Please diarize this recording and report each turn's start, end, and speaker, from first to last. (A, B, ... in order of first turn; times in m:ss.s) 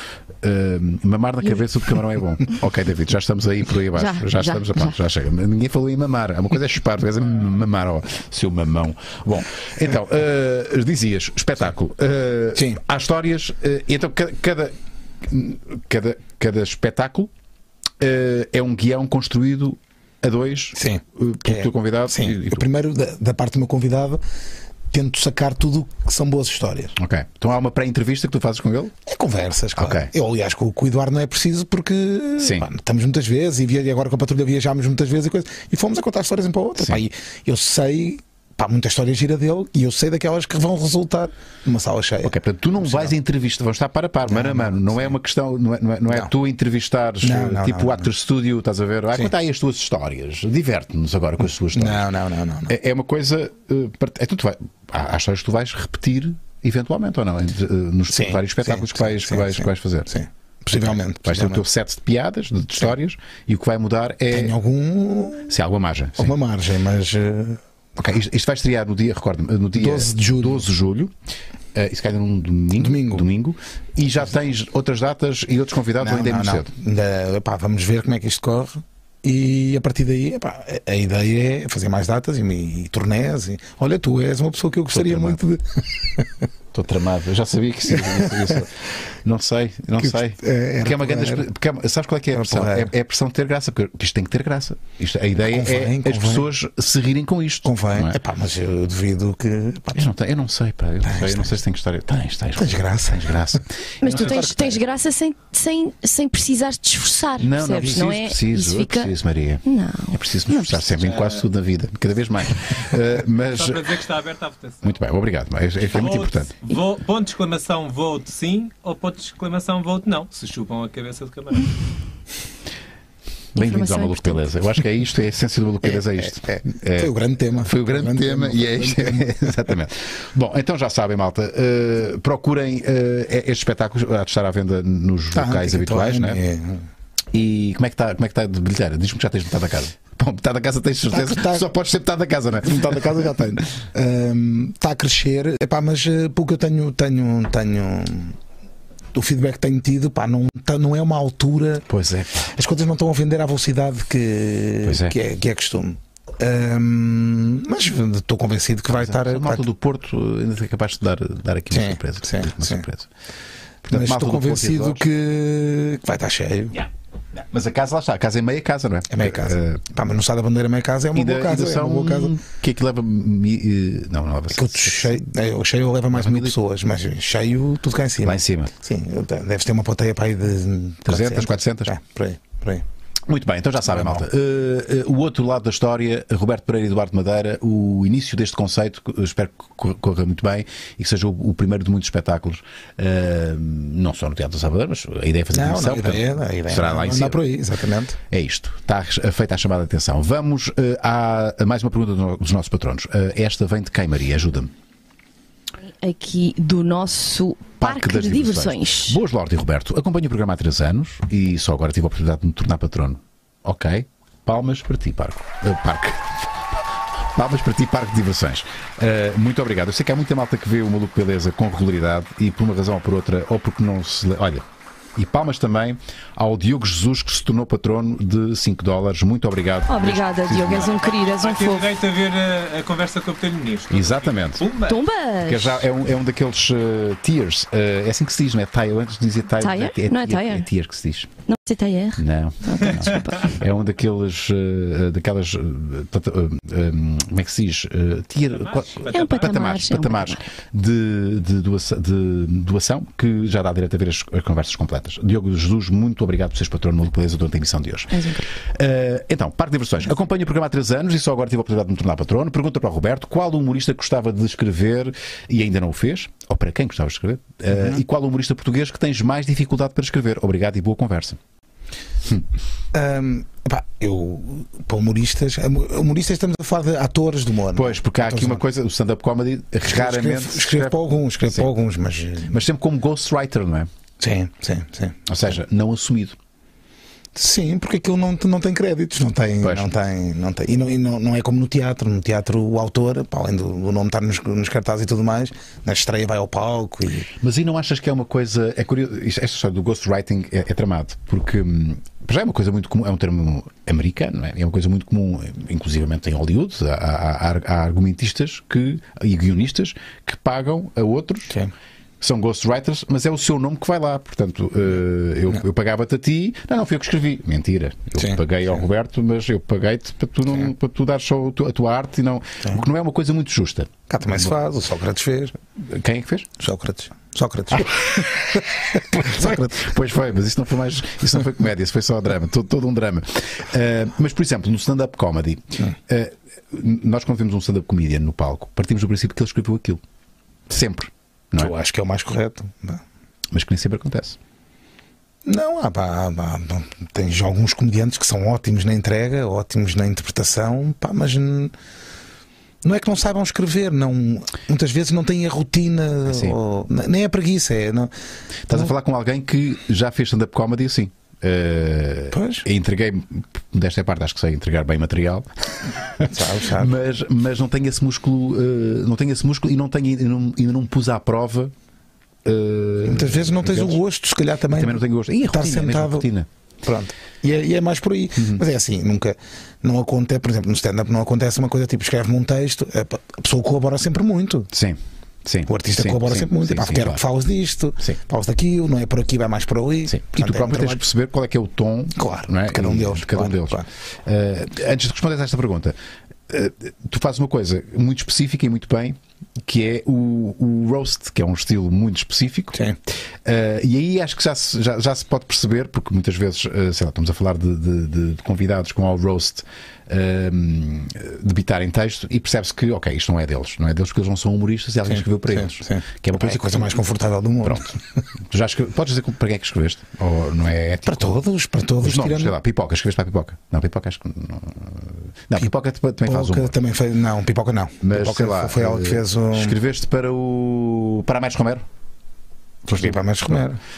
0:00.4-0:17.3 A
0:03.9-0:04.9 B
0:12.6-0:12.8 C
0:18.0-0:22.6 A
0:20.8-0:24.2 C
0:24.9-0:27.0 C
0:27.0-0:28.9 A
0:29.0-0:43.1 C
0:29.8-0:30.1 A
0:32.4-0:32.6 A
0:42.2-0:52.1 A
0:44.3-0:45.1 C
0:47.2-0:48.1 C
0:51.7-0:52.7 C
0:52.7-1:00.1 A
0:58.1-1:01.6 C
1:00.7-1:04.5 A
1:04.3-1:05.5 C
1:05.5-1:06.3 A
1:06.2-1:07.6 C
1:08.0-1:11.1 A
1:09.7-1:10.6 C
1:11.7-1:16.7 A
1:12.8-1:13.2 C
1:16.0-1:26.5 C
1:24.9-1:25.4 A
1:26.7-1:38.2 A
1:27.9-1:28.6 C
1:30.0-1:31.5 C
1:32.3-1:32.9 C
1:35.4-1:36.5 C
1:37.6-1:40.1 C
1:39.9-1:44.5 A
1:41.0-1:41.6 C
1:42.6-1:44.8 C
1:44.0-1:49.1 B
1:47.4-1:53.8 A
1:49.6-1:50.8 B
1:51.0-1:51.5 D
1:53.5-1:55.0 D
1:54.8-1:56.5 A
1:55.8-2:01.7 D
2:03.5-2:16.4 A
2:03.6-2:04.5 B
2:05.8-2:09.6 C
2:15.3-2:16.8 C
2:17.3-2:23.3 A
2:21.1-2:21.6 C
2:22.6-2:28.4 C
2:29.1-2:31.9 C
2:31.9-2:32.5 A
2:32.4-2:39.6 C
2:34.8-2:35.1 A
2:38.9-2:43.1 A
2:41.7-2:42.8 C
2:43.8-2:45.0 A
2:43.9-2:46.8 C
2:46.7-2:49.8 A
2:49.1-2:52.3 C
2:51.1-2:55.2 A
2:54.5-3:02.8 C
2:56.1-2:56.5 A
2:58.2-2:58.7 A
3:01.0-3:01.9 A
3:03.3-3:17.4 A
3:03.8-3:04.2 C
3:15.5-3:18.2 C
3:18.3-3:24.7 A
3:26.0-3:29.2 B
3:27.8-3:36.5 A
3:37.3-3:51.0 A
3:49.9-3:51.9 B
3:51.0-3:55.0 D
3:53.9-3:54.6 A
3:54.8-3:55.8 B
3:55.4-4:01.3 A
3:59.6-4:00.7 B
4:01.4-4:03.6 B
4:02.2-4:31.4 A
4:08.5-4:09.7 D
4:09.1-4:10.4 B
4:18.1-4:18.4 B
4:27.7-4:28.0 C
4:32.9-4:38.6 C
4:37.7-4:41.7 A
4:39.8-4:42.6 C
4:42.5-4:43.9 A
4:44.2-4:45.2 C
4:45.3-4:46.4 A
4:47.3-4:57.3 C
4:49.6-4:49.9 A
4:57.4-5:11.5 A
5:12.2-5:24.5 A
5:18.2-5:18.8 C
5:24.1-5:25.6 C
5:25.8-5:26.5 A
5:26.6-5:29.9 C
5:29.1-5:40.0 A
5:40.7-5:41.7 A
5:41.5-5:43.0 C
5:43.5-5:44.4 A
5:45.4-5:51.7 C
5:52.8-5:58.1 C
5:56.2-5:56.6 A
5:58.7-6:11.7 A
6:02.3-6:02.6 C
6:06.2-6:07.0 C
6:12.4-6:14.0 A
6:13.0-6:16.3 C
6:14.7-6:16.5 A
6:16.8-6:24.7 C
6:18.4-6:18.6 A
6:24.7-6:27.2 A
6:25.7-6:31.0 C
6:30.1-6:36.0 A
6:32.1-6:33.8 C
6:36.5-6:42.8 A
6:43.4-6:57.0 A
6:55.1-6:58.0 C
6:57.6-6:57.9 A
6:58.5-7:01.4 A
7:01.0-7:02.5 C
7:02.0-7:06.7 A
7:06.2-7:09.8 C
7:08.0-7:11.8 A
7:12.9-7:13.6 A
7:12.9-7:13.8 C